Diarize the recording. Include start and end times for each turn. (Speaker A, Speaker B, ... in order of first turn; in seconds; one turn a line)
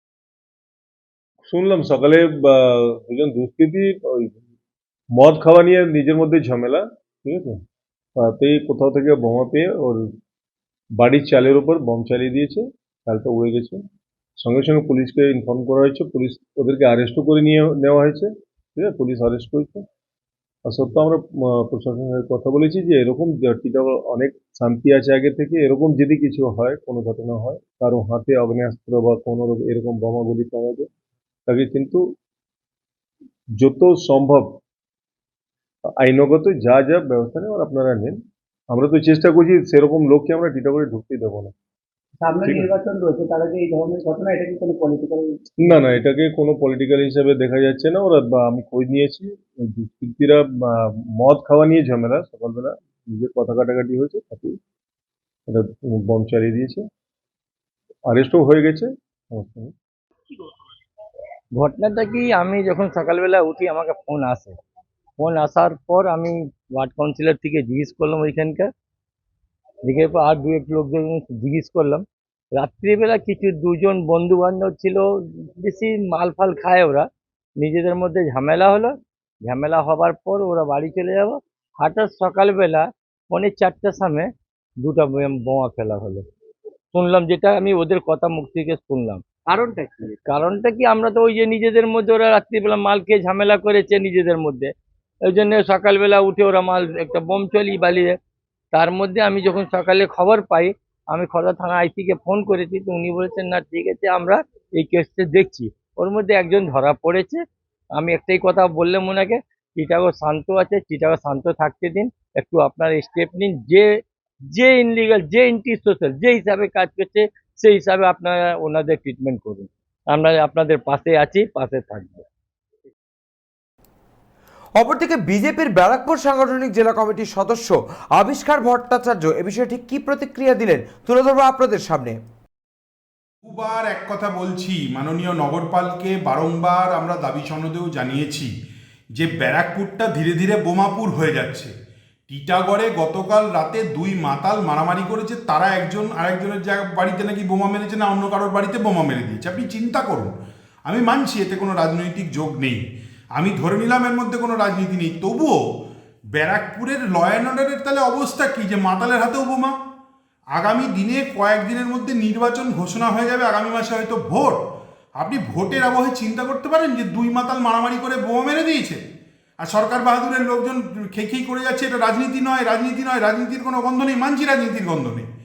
Speaker A: 1.4-4.4
Speaker A: 5.2-7.6
Speaker A: 8.2-10.0
Speaker A: 11.0-13.8
Speaker A: 14.4-19.9
Speaker A: 20.6-30.9
Speaker A: 31.5-32.1
Speaker A: 33.6-34.6
Speaker A: 36.0-38.2
Speaker A: 38.7-41.5
Speaker B: 42.2-45.8
Speaker A: 42.4-42.7
Speaker A: 45.7-54.6
Speaker A: 55.5-56.8
Speaker A: 58.1-59.7
Speaker C: 61.6-64.6
Speaker C: 65.2-68.7
Speaker C: 69.8-72.0
Speaker C: 72.6-75.0
Speaker C: 75.6-77.0
Speaker C: 77.6-78.9
Speaker C: 79.5-84.3
Speaker C: 84.8-86.2
Speaker C: 86.9-89.4
Speaker B: 89.5-90.0
Speaker C: 90.1-94.7
Speaker C: 95.3-98.1
Speaker C: 98.7-107.4
Speaker C: 108.0-113.9
Speaker C: 114.5-122.2
Speaker D: 124.8-132.2
Speaker E: 133.4-138.5
Speaker E: 139.2-141.7
Speaker E: 142.3-150.3
Speaker E: 150.9-152.8
Speaker E: 153.4-155.6
Speaker E: 156.3-159.7
Speaker E: 160.6-164.6
Speaker E: 165.2-169.0
Speaker E: 169.6-175.2